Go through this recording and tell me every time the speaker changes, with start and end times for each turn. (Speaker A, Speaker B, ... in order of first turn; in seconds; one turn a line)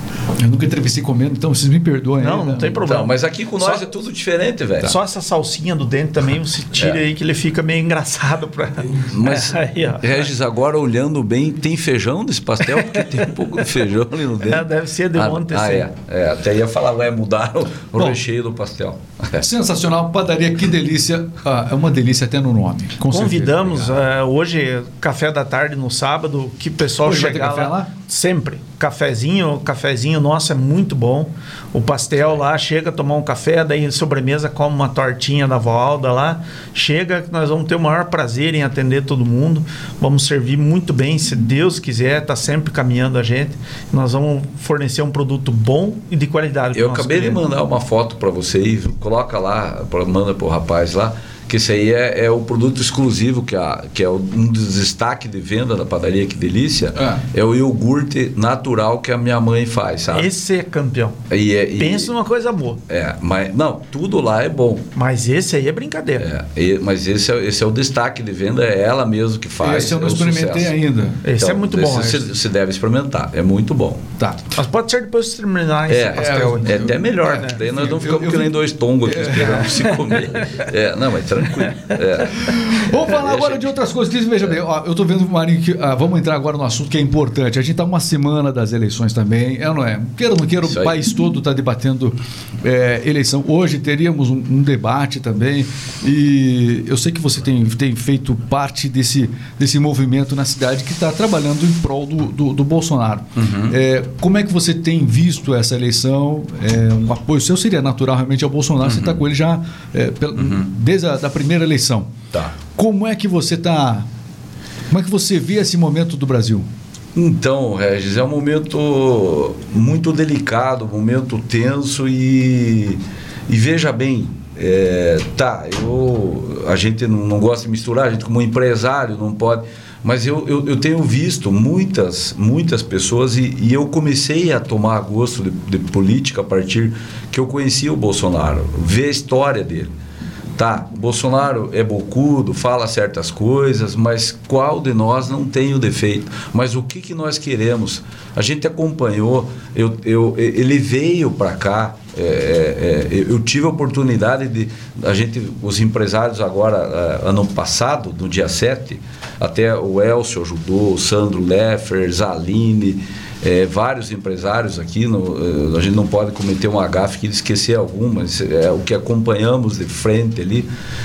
Speaker A: 0.3-2.8
Speaker B: 2.2-3.9
Speaker C: 2.8-5.0
Speaker B: 4.8-10.2
Speaker C: 9.1-19.4
Speaker B: 12.7-13.1
Speaker B: 14.4-15.9
Speaker A: 19.4-23.7
Speaker B: 23.1-47.4
Speaker A: 27.0-27.9
Speaker C: 46.7-60.3
Speaker A: 57.0-57.2
Speaker B: 60.1-61.2
Speaker C: 61.3-62.1
Speaker B: 61.8-62.8
Speaker C: 62.9-64.8
Speaker B: 64.9-66.3
Speaker C: 66.2-70.8
Speaker A: 69.6-71.2
Speaker B: 71.2-72.3
Speaker C: 71.3-74.0
Speaker A: 74.2-74.5
Speaker B: 74.5-76.8
Speaker C: 75.9-83.8
Speaker A: 76.1-79.9
Speaker A: 82.4-112.1
Speaker C: 90.6-90.9
Speaker C: 103.3-103.8
Speaker C: 108.8-109.2
Speaker C: 110.3-110.7
Speaker A: 112.7-114.1
Speaker A: 114.9-116.7
Speaker C: 117.1-139.9
Speaker C: 140.6-170.7